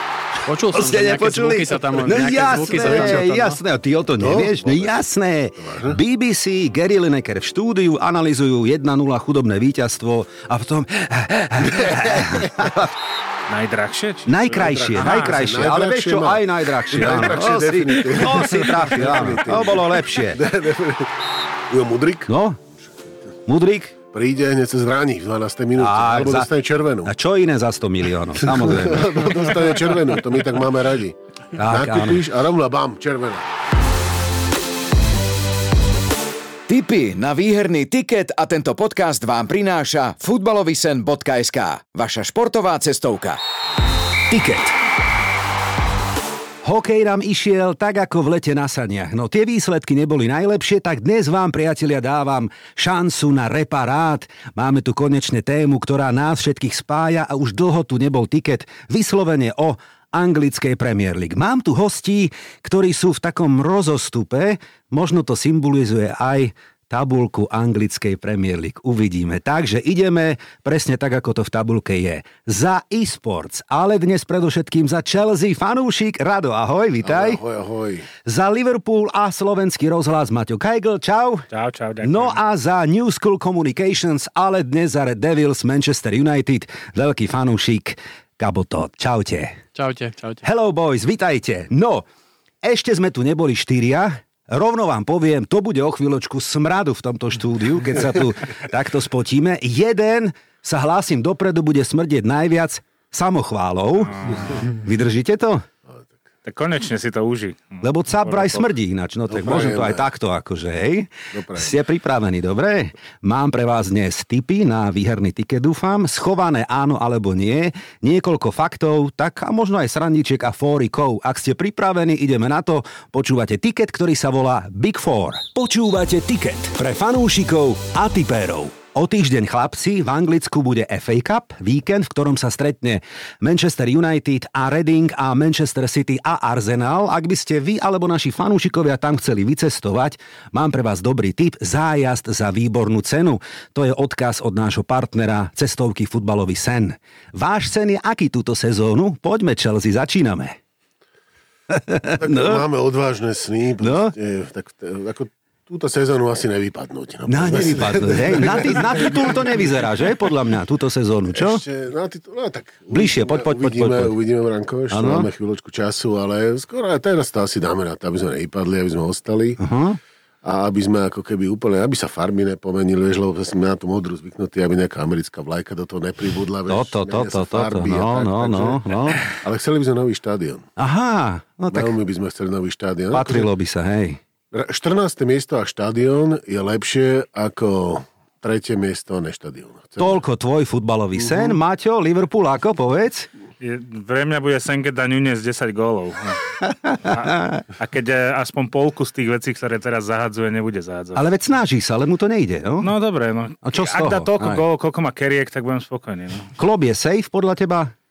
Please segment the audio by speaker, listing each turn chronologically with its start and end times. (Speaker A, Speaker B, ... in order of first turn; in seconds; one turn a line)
Speaker A: 0.5-3.6
Speaker B: 0.7-12.9
Speaker C: 2.7-3.2
Speaker C: 4.2-4.9
Speaker C: 5.6-6.0
Speaker D: 13.5-15.4
Speaker B: 14.2-20.4
Speaker C: 14.5-22.3
Speaker B: 22.3-22.6
Speaker B: 23.4-23.9
Speaker C: 24.1-27.1
Speaker B: 25.8-26.5
Speaker B: 27.0-29.4
Speaker C: 28.4-33.5
Speaker B: 31.6-32.2
Speaker E: 36.7-43.4
Speaker B: 44.3-44.7
Speaker B: 46.6-77.4
Speaker C: 77.0-78.1
Speaker B: 78.2-81.5
Speaker D: 81.5-82.4
Speaker B: 82.0-89.6
Speaker A: 89.7-90.4
Speaker B: 90.4-92.0
Speaker B: 92.6-105.6
Speaker D: 104.1-104.6
Speaker D: 106.4-108.7
Speaker B: 107.8-150.6
Speaker C: 109.3-110.1
Speaker C: 111.3-111.7
Speaker B: 151.7-152.6
Speaker C: 152.2-159.2
Speaker B: 153.8-154.1
Speaker B: 157.3-161.6
Speaker C: 161.3-169.6
Speaker B: 162.9-164.1
Speaker B: 164.9-165.3
Speaker B: 169.6-170.0
Speaker C: 170.4-180.7
Speaker B: 176.7-179.2
Speaker B: 180.8-181.9
Speaker C: 181.7-183.5
Speaker B: 183.1-184.2
Speaker C: 184.5-190.2
Speaker B: 190.0-193.3
Speaker C: 191.3-191.5
Speaker D: 193.6-196.4
Speaker B: 196.6-197.6
Speaker D: 197.0-201.2
Speaker B: 201.1-202.9
Speaker D: 202.8-206.5
Speaker B: 203.6-204.6
Speaker B: 206.5-207.9